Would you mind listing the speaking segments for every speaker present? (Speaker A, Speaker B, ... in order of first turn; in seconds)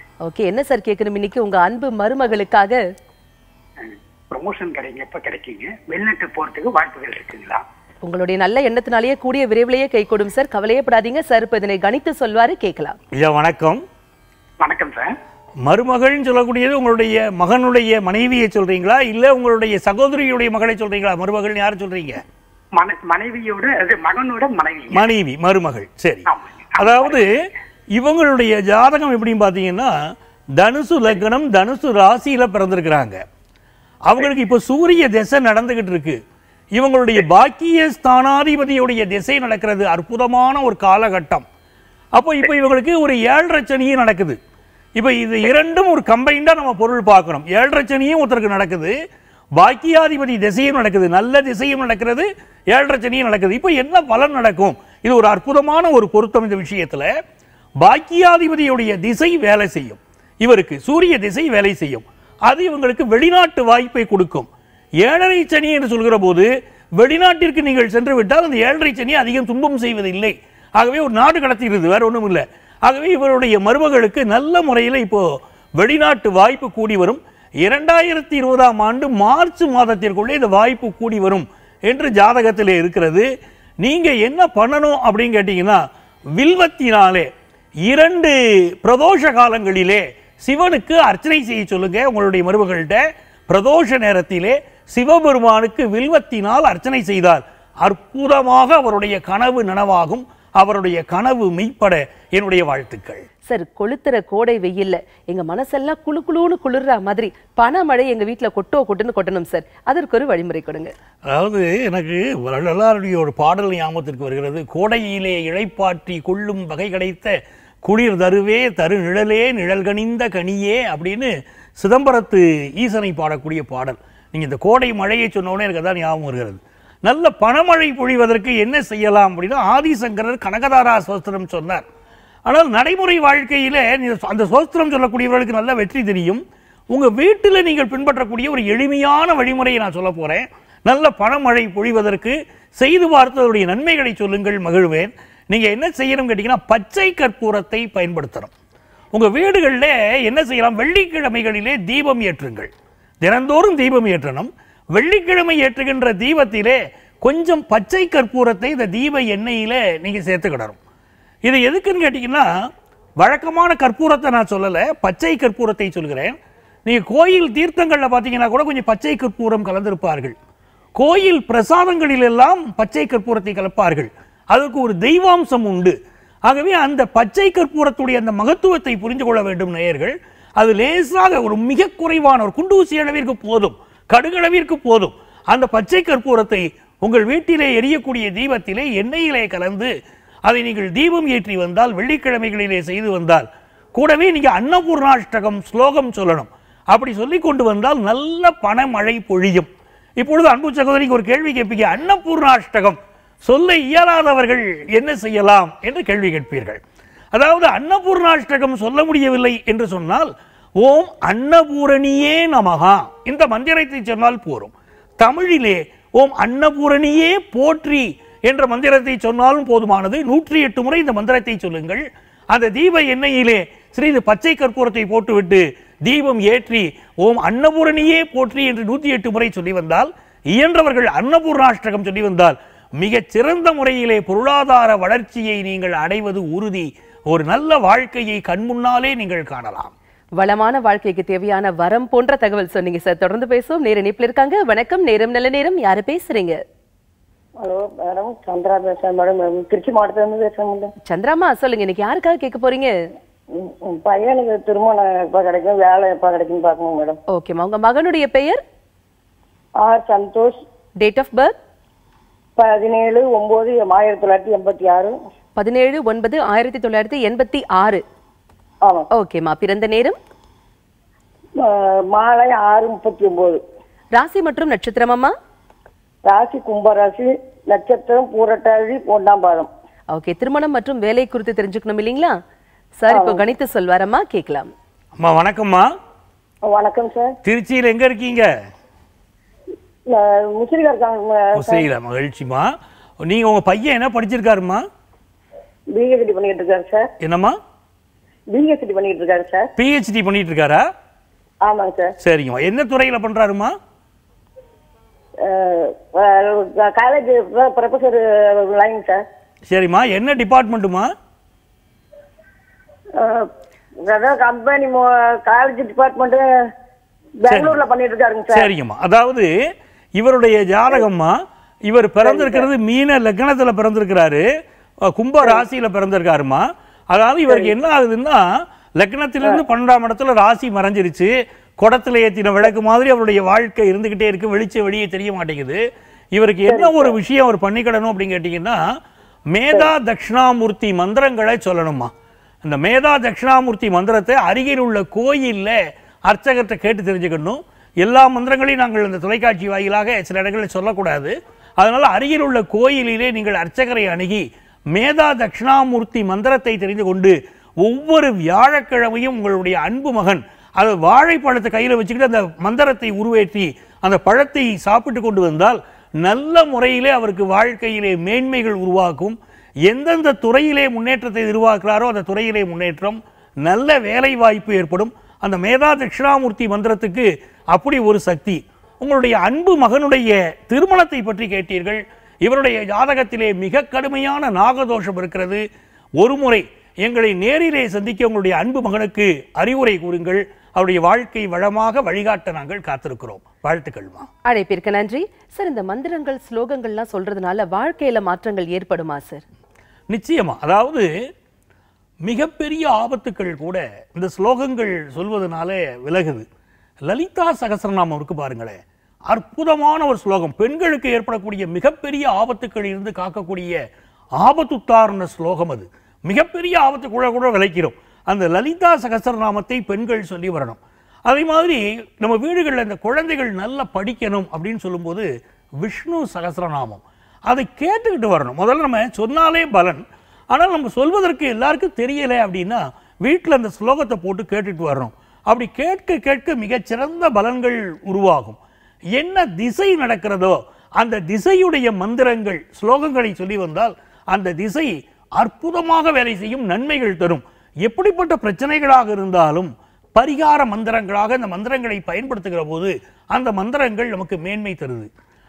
Speaker A: 0.2-2.8, 8.0-13.0, 103.5-110.9, 240.4-246.6, 251.0-252.9, 257.3-258.6, 261.0-261.6, 265.6-268.0, 269.1-270.2, 274.1-275.3, 280.1-282.4, 283.0-284.7, 394.4-399.4
Speaker B: 3.8-7.6, 14.6-15.1, 22.8-25.1, 26.3-27.2
Speaker C: 13.1-13.8, 15.6-22.2, 24.9-27.3, 27.9-29.9, 30.6-33.2, 34.0-36.2, 36.7-41.4, 42.1-44.4, 45.0-48.9, 49.6-57.1, 57.8-64.5, 65.0-83.3, 83.8-85.8, 86.3-87.3, 87.8-103.2, 111.2-131.8, 132.5-148.5, 149.1-152.7, 153.2-160.8, 161.4-162.5, 163.2-170.3, 170.9-189.9, 190.4-199.7, 200.2-206.8, 207.3-239.9, 285.2-285.9, 287.4-288.5, 291.5-292.7, 293.2-294.8, 297.2-297.6, 299.8-300.9, 302.2-303.8, 309.7-311.1, 317.5-317.8, 318.5-319.5, 320.2-324.4, 325.1-328.5, 329.0-335.8, 336.3-338.8, 339.5-342.1, 342.6-385.6, 386.2-394.3, 400.1-401.1, 402.2-406.4, 407.0-408.8, 409.3-413.8, 414.4-425.3, 425.8-438.6, 439.1-455.1
Speaker D: 247.6-250.9, 253.5-257.2, 259.8-260.6, 262.6-265.1, 271.6-273.6, 276.2-279.7, 283.1-283.4, 286.7-287.4, 290.1-291.9, 295.9-297.1, 298.5-299.7, 301.6-302.1, 305.4-309.2, 313.1-313.5, 314.1-316.4, 317.4-318.7, 322.2-322.7, 336.7-337.1